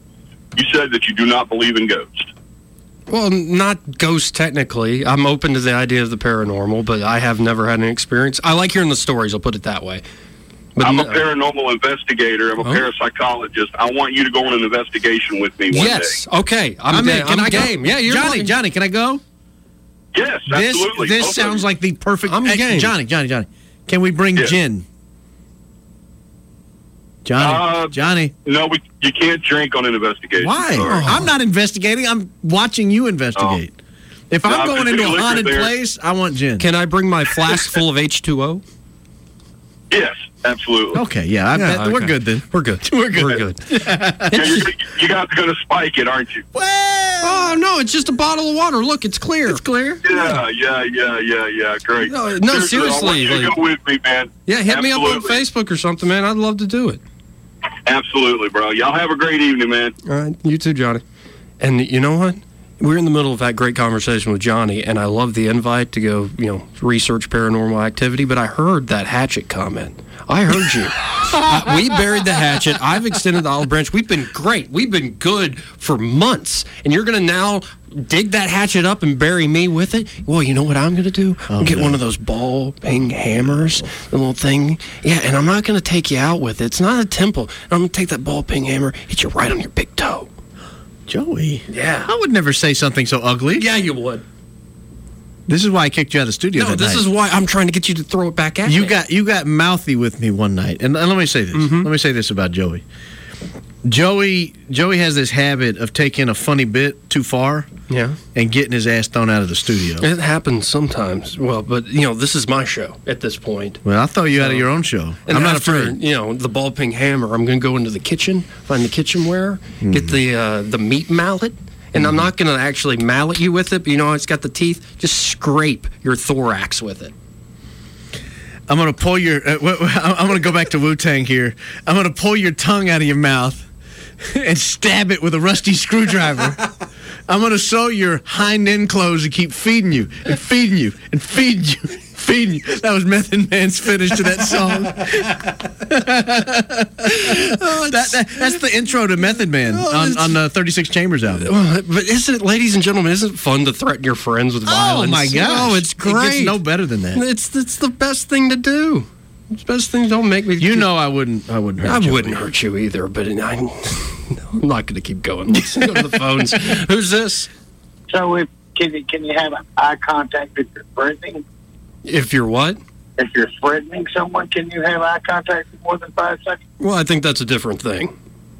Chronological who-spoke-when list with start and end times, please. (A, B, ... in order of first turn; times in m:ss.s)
0:00.5-0:02.3 A
0:03.1-0:10.0 B
0:10.8-0:11.3 B
0:10.8-0:16.2 A
0:12.6-0:12.9 B
0:15.7-0:18.5 B
0:16.9-0:19.2 C
0:20.1-0:21.6 A
0:20.5-0:24.8 C
0:22.3-0:22.9 B
0:27.2-0:28.3 C
0:27.4-0:31.2 A
0:30.4-0:33.7 C
0:30.8-0:31.3 B
0:34.3-0:36.7 C
0:34.4-0:35.7 A
0:36.6-0:38.6 B
0:39.9-0:41.0 A
0:40.9-0:44.7 C
0:41.5-0:44.6 B
0:44.3-0:46.4 A
0:46.5-0:47.6 C
0:47.2-0:49.6 B
0:49.5-0:50.0 C
0:50.0-0:55.4 A
0:52.0-0:53.6 B
0:54.5-0:57.0 B
0:57.8-0:59.9 A
1:00.0-1:01.0 B
1:01.6-1:30.3 B
1:21.5-1:22.0 C
1:23.3-1:23.9 C
1:31.1-1:33.7 C
1:31.7-1:32.1 B
1:33.5-1:34.2 B
1:35.5-1:37.1 C
1:36.6-1:39.0 B
1:38.6-1:42.8 C
1:41.5-1:41.9 B
1:43.8-1:47.7 C
1:47.9-1:48.2 B
1:48.3-1:50.0 C
1:50.0-1:53.8 B
1:53.8-1:56.0 C
1:54.4-1:54.7 B
1:55.2-2:07.1 B
1:59.8-2:00.2 C
2:02.0-2:02.2 C
2:08.7-2:13.7 C
2:14.2-2:16.7 C
2:17.3-2:31.5 C
2:27.0-2:28.6 B
2:29.7-2:30.4 B
2:31.4-2:36.6 B
2:34.6-2:37.2 C
2:37.1-2:40.9 B
2:40.6-2:42.4 C
2:41.8-2:47.5 B
2:45.5-2:46.0 C
2:48.1-2:51.4 D
2:52.0-2:52.8 B
2:53.2-2:56.6 D
2:56.8-2:58.1 B